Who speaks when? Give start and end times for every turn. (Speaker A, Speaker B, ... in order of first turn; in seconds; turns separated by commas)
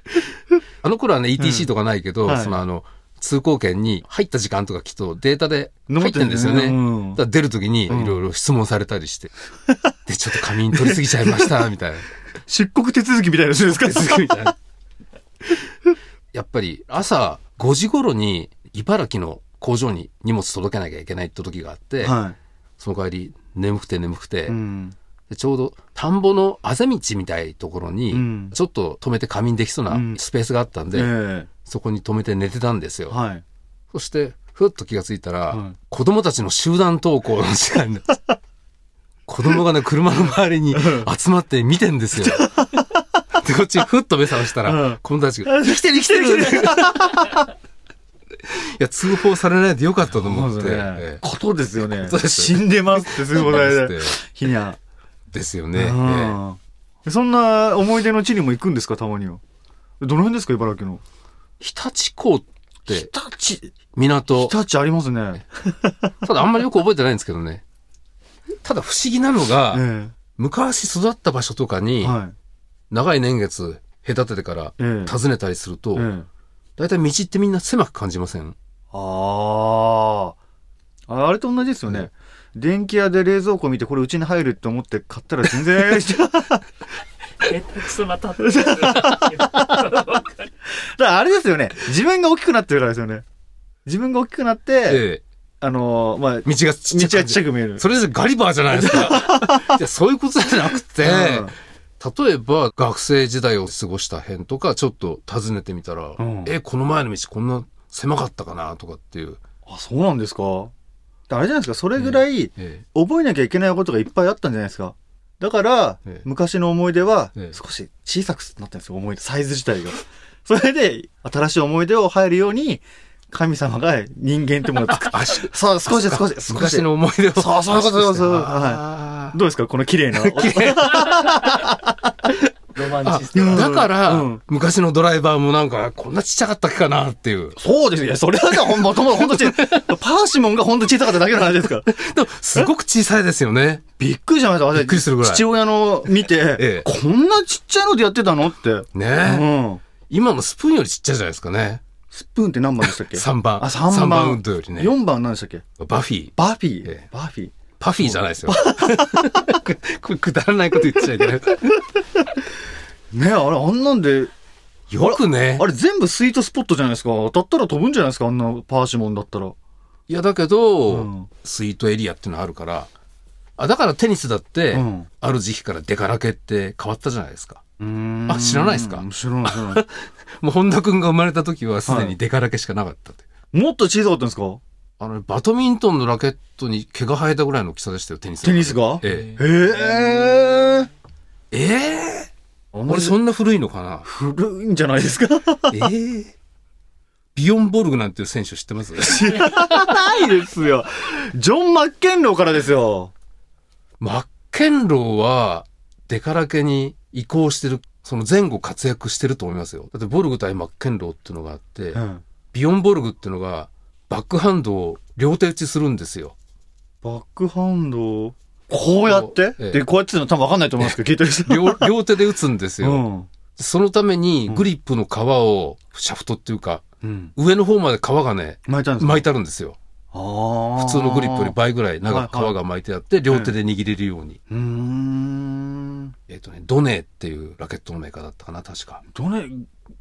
Speaker A: 0.8-9.3, Speaker B: 1.4-1.7, Speaker B: 2.2-2.6, Speaker B: 5.9-7.2, Speaker B: 7.9-8.2, Speaker A: 10.1-12.0, Speaker B: 10.7-11.5, Speaker B: 12.5-14.5, Speaker A: 13.7-14.5, Speaker A: 16.3-22.1, Speaker B: 22.0-22.4, Speaker A: 22.8-24.6, Speaker B: 24.5-24.9, Speaker A: 25.3-31.1, Speaker B: 28.1-28.6, Speaker B: 29.9-30.2, Speaker B: 30.9-31.5, Speaker A: 31.6-33.1, Speaker B: 33.1-33.4, Speaker A: 33.9-38.1, Speaker B: 35.5-35.8, Speaker A: 39.3-42.6, Speaker B: 40.7-41.1, Speaker B: 42.2-43.0, Speaker A: 43.3-47.2, Speaker B: 44.6-47.5, Speaker A: 48.5-51.2, Speaker B: 50.2-54.8, Speaker A: 51.8-54.2, Speaker A: 55.3-56.4, Speaker B: 55.7-59.4, Speaker B: 60.0-61.0, Speaker A: 61.6-63.1, Speaker B: 62.9-63.7, Speaker A: 63.9-64.5, Speaker B: 64.4-66.1, Speaker A: 66.2-67.6, Speaker A: 68.6-69.8, Speaker B: 69.7-70.1, Speaker A: 70.4-72.2, Speaker B: 72.0-72.3, Speaker A: 72.9-76.1, Speaker B: 74.8-75.2, Speaker B: 75.9-76.3, Speaker A: 76.8-78.5, Speaker B: 78.9-80.3, Speaker B: 81.1-86.6, Speaker C: 87.4-90.3, Speaker B: 88.4-89.9, Speaker B: 90.8-93.2, Speaker B: 93.8-95.0, Speaker A: 94.9-95.2, Speaker B: 95.6-97.8, Speaker A: 96.4-109.4, Speaker B: 98.7-99.8, Speaker B: 101.0-101.5, Speaker B: 106.2-106.5, Speaker B: 109.7-110.7, Speaker B: 111.3-132.1, Speaker A: 112.0-112.8, Speaker A: 124.8-129.4, Speaker A: 130.1-131.6, Speaker C: 132.7-133.6, Speaker A: 132.8-137.6, Speaker B: 133.3-134.4, Speaker B: 137.6-141.9, Speaker A: 138.5-139.9, Speaker A: 141.8-143.8, Speaker B: 144.0-149.8, Speaker A: 144.7-145.4, Speaker A: 146.6-146.9, Speaker A: 148.9-149.5, Speaker A: 150.1-151.8, Speaker B: 152.1-155.6, Speaker A: 153.1-154.9, Speaker A: 155.8-157.0, Speaker B: 156.4-159.6, Speaker A: 157.8-161.8, Speaker B: 163.1-164.3, Speaker A: 164.9-165.7, Speaker B: 165.0-169.6, Speaker A: 170.1-172.9, Speaker B: 170.9-171.3, Speaker A: 173.6-177.6, Speaker B: 174.7-175.1, Speaker B: 177.8-179.8, Speaker A: 178.3-183.2, Speaker B: 181.9-182.1, Speaker B: 183.5-184.6, Speaker A: 185.0-189.4, Speaker B: 188.4-190.9, Speaker A: 191.5-192.3, Speaker B: 192.7-193.2, Speaker A: 192.9-194.1, Speaker B: 194.0-195.9, Speaker A: 195.7-196.3, Speaker A: 197.3-199.3, Speaker B: 199.0-203.1, Speaker A: 204.0-212.0, Speaker B: 211.9-212.2, Speaker A: 212.5-216.3, Speaker B: 217.0-221.9, Speaker A: 219.0-219.8, Speaker A: 220.8-223.0, Speaker B: 222.8-223.3, Speaker A: 223.6-226.8, Speaker B: 227.0-227.3, Speaker A: 227.3-229.8, Speaker B: 228.7-229.3, Speaker B: 230.1-232.5, Speaker A: 230.8-234.4, Speaker B: 234.5-236.1, Speaker A: 236.3-239.0, Speaker B: 239.1-239.7